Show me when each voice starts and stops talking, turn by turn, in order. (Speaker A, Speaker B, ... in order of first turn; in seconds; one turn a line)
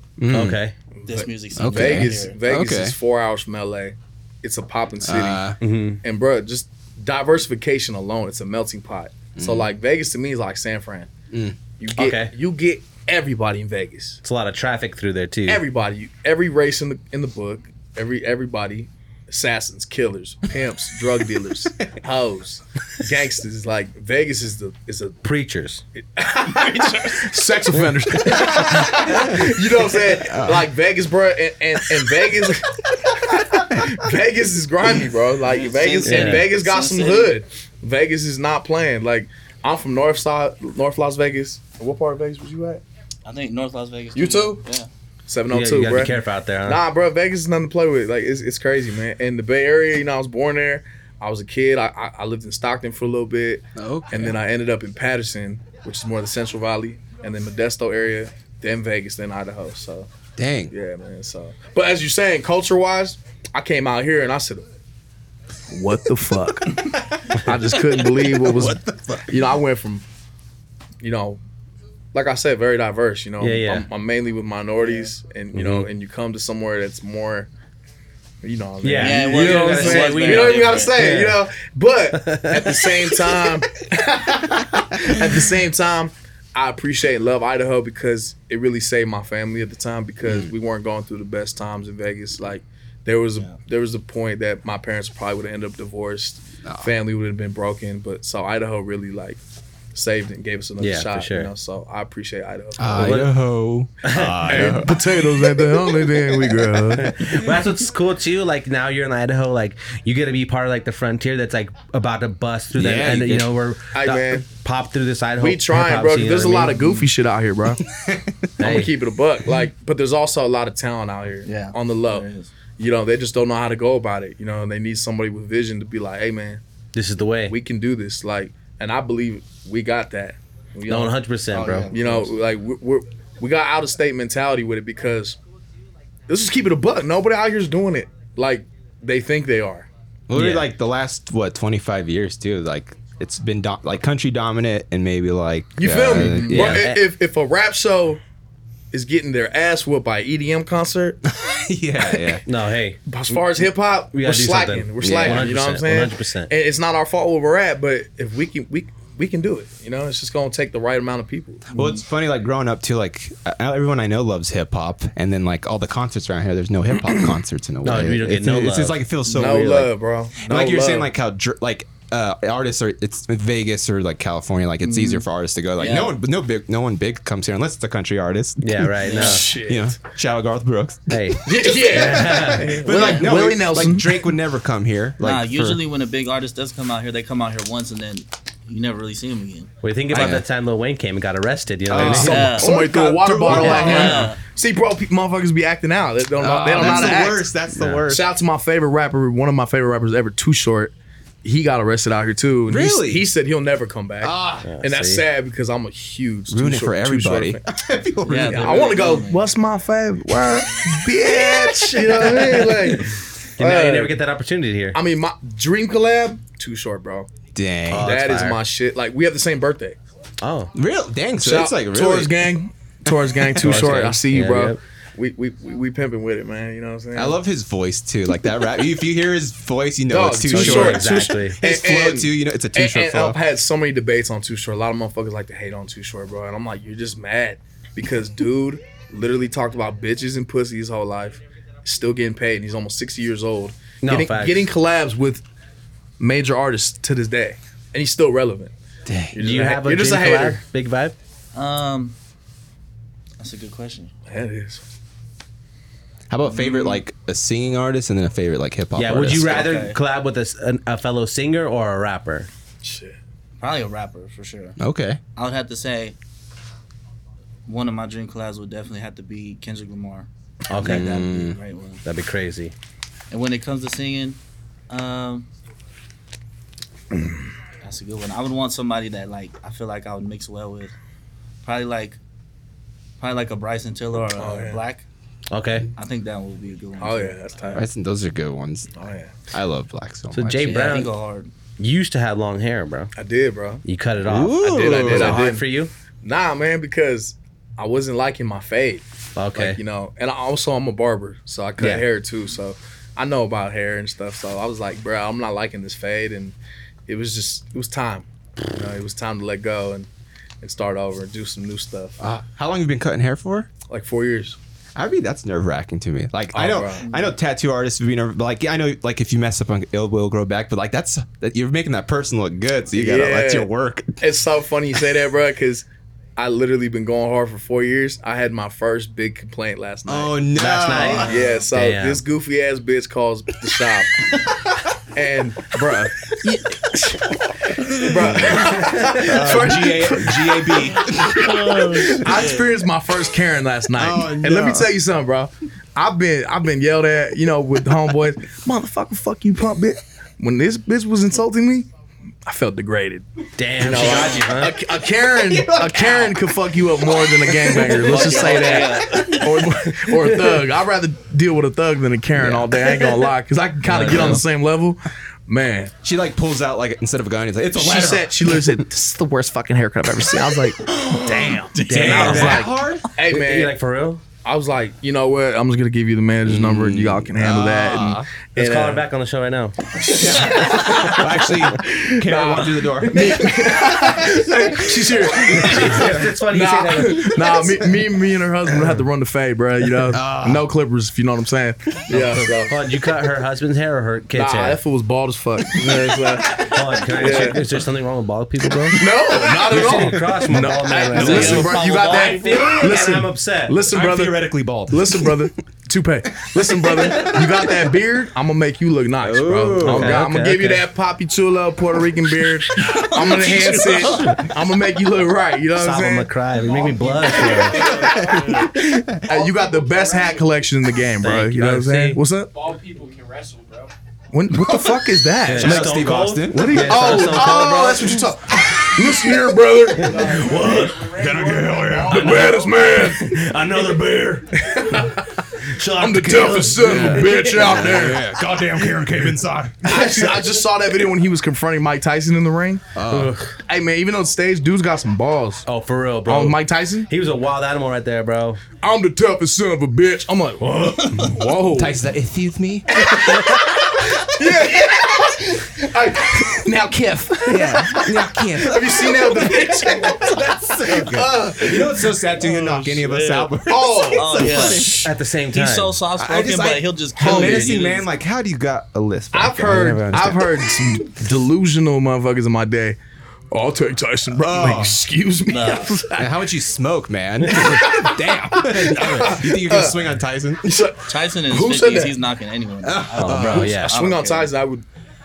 Speaker A: 0.2-0.6
Speaker B: 0.3-0.8
Speaker C: 1.0-5.4
Speaker D: 1.1-2.4
Speaker A: 1.6-3.0
Speaker A: 5.0-5.6
Speaker B: 5.6-6.0
Speaker C: 6.0-11.1
Speaker A: 9.4-9.7
Speaker A: 11.3-11.6
Speaker C: 11.8-14.2
Speaker B: 12.0-12.3
Speaker B: 14.2-15.6
Speaker C: 15.5-25.2
Speaker B: 25.2-25.8
Speaker C: 26.0-42.8
Speaker B: 27.7-28.6
Speaker A: 28.2-30.7
Speaker A: 33.6-33.9
Speaker D: 35.4-37.4
Speaker B: 36.0-36.5
Speaker D: 43.3-44.9
Speaker C: 44.1-44.6
Speaker C: 45.3-60.1
Speaker B: 45.5-46.8
Speaker A: 53.8-54.4
Speaker A: 60.4-60.7
Speaker C: 60.7-64.7
Speaker C: 65.7-70.0
Speaker A: 67.3-69.6
Speaker C: 71.0-71.4
Speaker C: 72.1-77.5
Speaker B: 73.4-73.9
Speaker B: 75.5-75.9
Speaker C: 78.4-99.4
Speaker B: 78.8-81.4
Speaker D: 78.9-81.0
Speaker B: 82.1-83.0
Speaker A: 96.6-96.9
Speaker C: 99.9-103.2
Speaker B: 100.8-101.5
Speaker A: 102.8-105.2
Speaker B: 102.9-103.3
Speaker B: 104.0-104.7
Speaker C: 104.5-107.4
Speaker B: 106.9-117.1
Speaker A: 112.8-113.5
Speaker C: 113.9-114.5
Speaker C: 115.4-117.8
Speaker A: 117.9-118.5
Speaker B: 118.6-118.9
Speaker C: 118.6-122.3
Speaker D: 121.5-122.5
Speaker C: 122.8-126.6
Speaker B: 126.9-127.6
Speaker C: 127.5-131.2
Speaker B: 130.9-131.9
Speaker D: 131.5-132.4
Speaker C: 131.9-135.4
Speaker C: 136.3-139.9
Speaker A: 140.3-146.9
Speaker B: 140.3-140.7
Speaker C: 145.8-148.2
Speaker B: 146.4-147.0
Speaker C: 148.9-151.2
Speaker A: 151.3-152.4
Speaker B: 152.4-156.5
Speaker C: 153.1-161.9
Speaker A: 155.0-155.5
Speaker A: 161.7-185.8
Speaker B: 167.8-169.0
Speaker C: 169.3-171.1
Speaker C: 174.8-175.2
Speaker D: 175.8-176.1
Speaker B: 178.6-179.5
Speaker D: 179.1-179.4
Speaker C: 179.1-179.9
Speaker B: 181.1-182.8
Speaker C: 181.4-184.2
Speaker D: 185.2-189.7
Speaker B: 189.8-192.5
Speaker A: 190.1-190.4
Speaker A: 191.9-194.3
Speaker C: 191.9-197.5
Speaker D: 192.0-192.9
Speaker D: 193.4-194.4
Speaker B: 193.5-194.1
Speaker A: 196.4-198.3
Speaker D: 196.8-197.1
Speaker B: 197.7-198.1
Speaker C: 198.1-207.6
Speaker A: 202.7-203.3
Speaker A: 204.2-204.7
Speaker B: 204.6-205.2
Speaker A: 206.5-208.9
Speaker D: 208.3-209.5
Speaker C: 208.5-214.2
Speaker A: 211.2-213.0
Speaker B: 213.6-215.0
Speaker C: 214.9-217.3
Speaker A: 217.6-218.2
Speaker B: 217.9-218.6
Speaker C: 217.9-220.0
Speaker B: 220.4-220.7
Speaker A: 220.7-222.5
Speaker C: 221.4-227.4
Speaker B: 223.6-224.8
Speaker A: 227.2-233.4
Speaker C: 230.1-245.4
Speaker B: 230.5-231.6
Speaker B: 244.0-244.7
Speaker C: 246.2-248.7
Speaker A: 249.1-249.4
Speaker C: 249.3-250.6
Speaker B: 249.4-251.2
Speaker D: 251.5-252.2
Speaker D: 253.4-254.1
Speaker C: 254.3-254.8
Speaker A: 256.3-259.7
Speaker D: 256.6-256.9
Speaker B: 259.0-262.5
Speaker D: 259.4-260.0
Speaker C: 262.8-263.2
Speaker D: 263.6-264.8
Speaker A: 264.8-265.2
Speaker D: 265.4-266.2
Speaker D: 267.7-272.0
Speaker B: 270.7-271.2
Speaker A: 270.8-271.6
Speaker B: 272.1-272.7
Speaker D: 273.3-274.4
Speaker D: 274.9-275.5
Speaker D: 277.8-280.9
Speaker D: 281.6-282.2
Speaker D: 283.2-285.1
Speaker C: 284.3-284.8
Speaker B: 285.5-285.9
Speaker D: 285.9-287.4
Speaker C: 287.0-287.9
Speaker A: 287.7-288.9
Speaker C: 289.0-289.4
Speaker A: 289.5-291.0
Speaker B: 290.3-291.1
Speaker D: 290.6-291.5
Speaker B: 291.8-293.1
Speaker C: 293.2-293.8
Speaker B: 293.8-295.9
Speaker A: 294.2-295.5
Speaker C: 294.6-295.6
Speaker C: 296.2-306.6
Speaker B: 299.4-299.8
Speaker B: 301.8-302.1
Speaker C: 307.1-310.1
Speaker C: 310.6-312.2
Speaker A: 312.2-313.7
Speaker C: 313.9-314.6
Speaker A: 315.0-324.2
Speaker C: 316.5-317.1
Speaker C: 322.9-323.7
Speaker C: 324.2-325.9
Speaker C: 326.4-330.4
Speaker A: 330.1-331.4
Speaker B: 330.6-332.2
Speaker D: 331.0-331.4
Speaker C: 331.1-334.3
Speaker C: 335.1-337.1
Speaker A: 337.8-342.6
Speaker C: 338.0-351.9
Speaker B: 338.8-339.3
Speaker A: 344.0-344.9
Speaker C: 352.5-353.3
Speaker B: 353.6-354.8
Speaker C: 353.8-365.9
Speaker A: 353.8-354.5
Speaker A: 355.2-358.5
Speaker D: 357.9-359.4
Speaker B: 360.2-360.6
Speaker A: 362.4-363.2
Speaker B: 363.8-364.4
Speaker A: 364.0-364.4
Speaker A: 366.0-368.8
Speaker C: 367.8-373.7
Speaker A: 370.9-373.1
Speaker B: 371.9-372.7
Speaker B: 373.2-374.2
Speaker C: 374.4-379.0
Speaker A: 376.5-378.3
Speaker B: 378.6-379.8
Speaker C: 380.0-392.8
Speaker A: 380.1-386.3
Speaker B: 385.5-387.7
Speaker A: 390.1-390.7
Speaker B: 392.1-394.8
Speaker C: 394.3-397.6
Speaker A: 395.8-396.5
Speaker B: 396.6-403.8
Speaker C: 398.9-416.3
Speaker A: 399.8-401.7
Speaker D: 401.1-402.7
Speaker A: 402.4-403.1
Speaker A: 403.9-405.5
Speaker A: 406.4-407.8
Speaker A: 409.2-410.3
Speaker B: 409.8-410.9
Speaker D: 412.8-414.3
Speaker B: 414.0-414.4
Speaker B: 415.8-417.8
Speaker E: 416.5-418.7
Speaker A: 417.6-419.2
Speaker C: 417.6-422.5
Speaker E: 419.3-420.5
Speaker B: 421.2-422.2
Speaker E: 422.5-423.9
Speaker C: 424.3-430.9
Speaker A: 424.5-429.2
Speaker B: 425.4-428.2
Speaker B: 430.0-431.3
Speaker E: 430.0-432.9
Speaker A: 431.2-432.5
Speaker B: 431.9-435.1
Speaker C: 432.1-433.4
Speaker C: 434.6-435.4
Speaker B: 435.6-437.9
Speaker C: 435.9-438.3
Speaker A: 436.8-439.9
Speaker C: 439.8-442.9
Speaker B: 439.9-440.5
Speaker A: 442.9-443.4
Speaker B: 443.1-443.6
Speaker C: 443.7-445.6
Speaker B: 445.7-448.6
Speaker C: 446.3-447.1
Speaker C: 448.8-452.0
Speaker B: 450.6-451.2
Speaker A: 451.8-453.1
Speaker C: 452.9-462.9
Speaker A: 454.4-454.8
Speaker A: 457.5-465.1
Speaker D: 462.9-463.5
Speaker C: 463.6-465.1
Speaker D: 464.1-464.9
Speaker B: 465.0-466.0
Speaker D: 465.5-468.1
Speaker A: 466.2-471.1
Speaker B: 467.2-467.7
Speaker C: 467.3-467.7
Speaker C: 469.3-473.0
Speaker C: 473.5-476.3
Speaker A: 474.4-475.0
Speaker D: 475.5-476.0
Speaker A: 476.1-480.7
Speaker C: 477.5-479.9
Speaker C: 480.6-482.1
Speaker D: 481.1-484.5
Speaker A: 482.8-483.8
Speaker B: 483.2-484.0
Speaker C: 483.4-484.9